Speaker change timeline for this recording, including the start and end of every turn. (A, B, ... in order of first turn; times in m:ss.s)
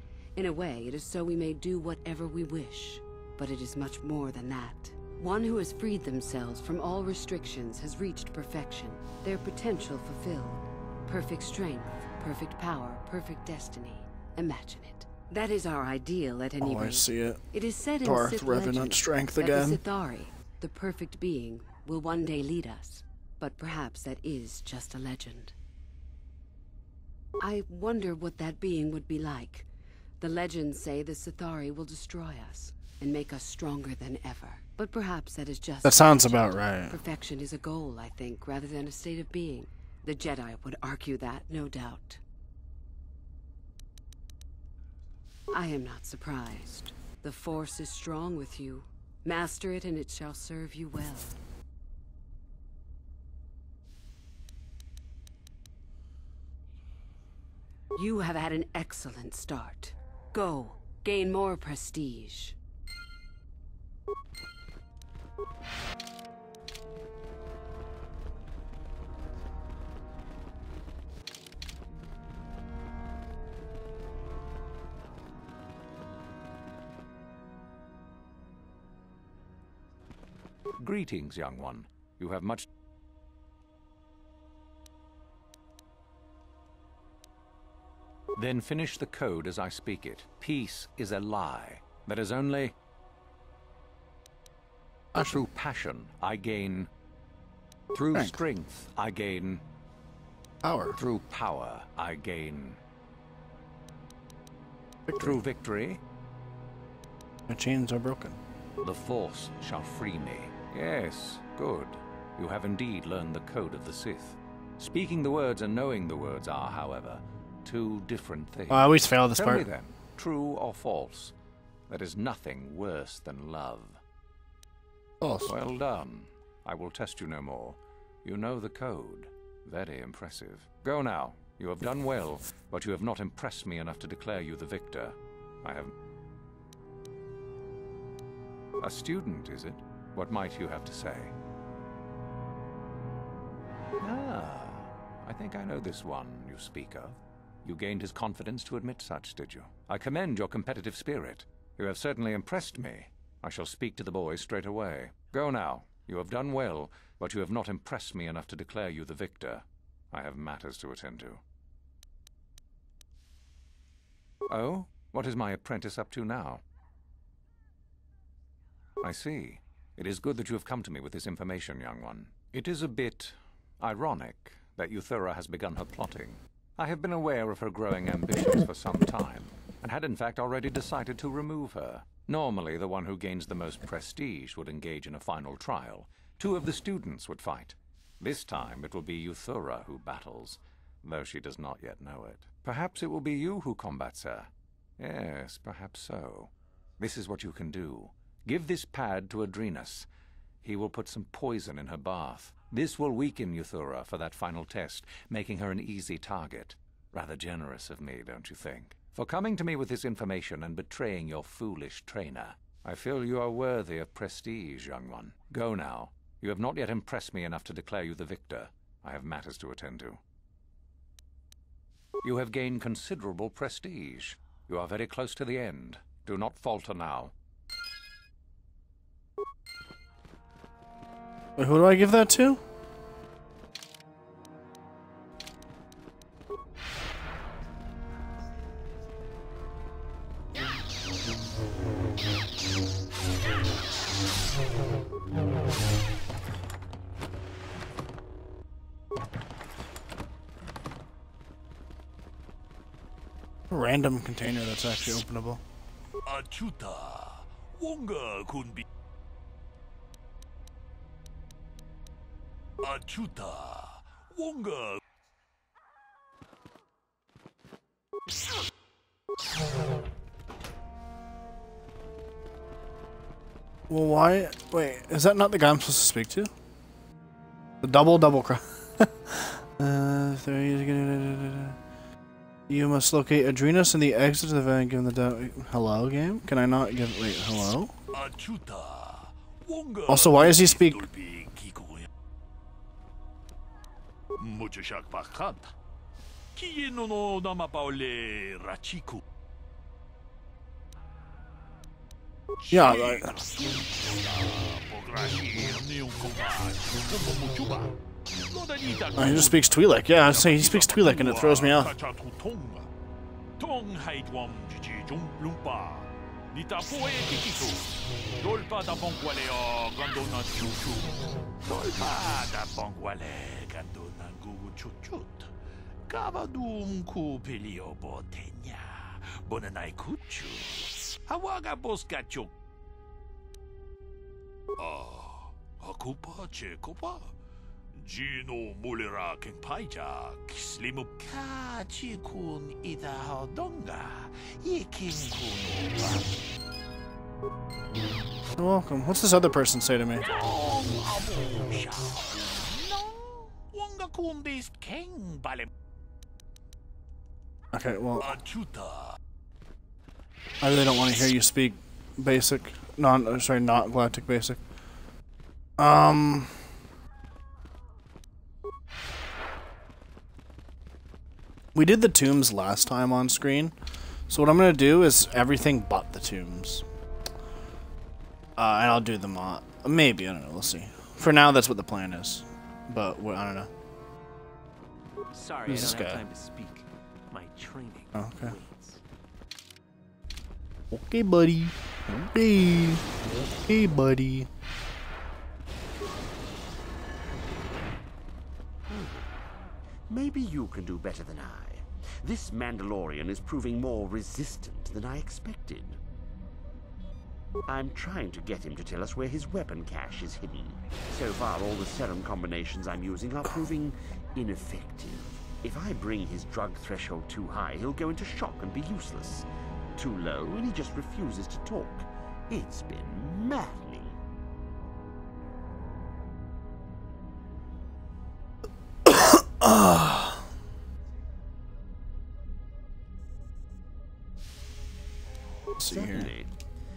0:00.4-0:25.5 A
0:16.6-0:17.4 B
0:18.0-0:19.8 B
0:27.4-0:29.7 A
0:30.2-0:42.2 A
0:35.8-0:37.0 B
0:45.5-0:51.4 A
0:58.0-1:02.6 A
1:20.8-1:22.7 C
1:28.3-1:32.7 C
1:35.1-1:35.4 B
1:35.2-1:36.9 C
1:37.9-1:39.6 C
1:40.6-1:41.0 B
1:40.9-1:42.8 C
1:45.1-1:45.4 B
1:45.2-1:46.0 C
1:47.5-1:48.4 B
1:48.8-2:01.3 C
1:58.7-1:59.6 B
2:01.9-2:04.0 C
2:05.2-2:05.5 B
2:05.4-2:15.9 C
2:18.8-2:21.3 C
2:24.0-2:41.4 C
2:44.5-2:46.6 C
2:49.0-3:20.1 C
3:20.6-3:40.2 C
3:42.2-3:47.3 C
3:51.6-3:52.6 B
4:13.7-4:15.6 B
4:16.2-4:18.8 D
4:22.8-4:25.0 D
4:33.9-4:36.5 B
4:37.8-4:41.8 B
4:42.7-4:47.9 B
4:48.1-4:52.1 D
4:50.1-4:51.0 B
4:54.4-4:55.7 D
4:56.5-4:59.2 D
5:02.6-5:12.9 D
5:02.7-5:03.3 B
5:09.2-5:11.9 B
5:13.6-5:25.5 D
5:26.1-5:32.5 D
5:34.8-5:37.3 D
5:37.9-5:46.4 D
5:48.6-5:50.3 B
5:50.2-5:55.7 D
5:57.7-5:58.3 B
5:58.2-5:59.2 D
6:00.6-6:04.6 B
6:05.8-6:06.6 B
6:11.7-6:13.7 B
6:14.3-6:16.8 B
6:18.6-6:23.7 B
6:25.3-6:29.0 E
6:25.7-6:26.2 B
6:28.1-6:28.5 B
6:30.9-6:34.5 B
6:38.9-6:39.3 F
6:40.1-6:46.0 F
6:47.6-7:04.2 F
7:09.1-7:10.4 B
7:15.8-7:16.3 B
7:15.8-7:16.5 F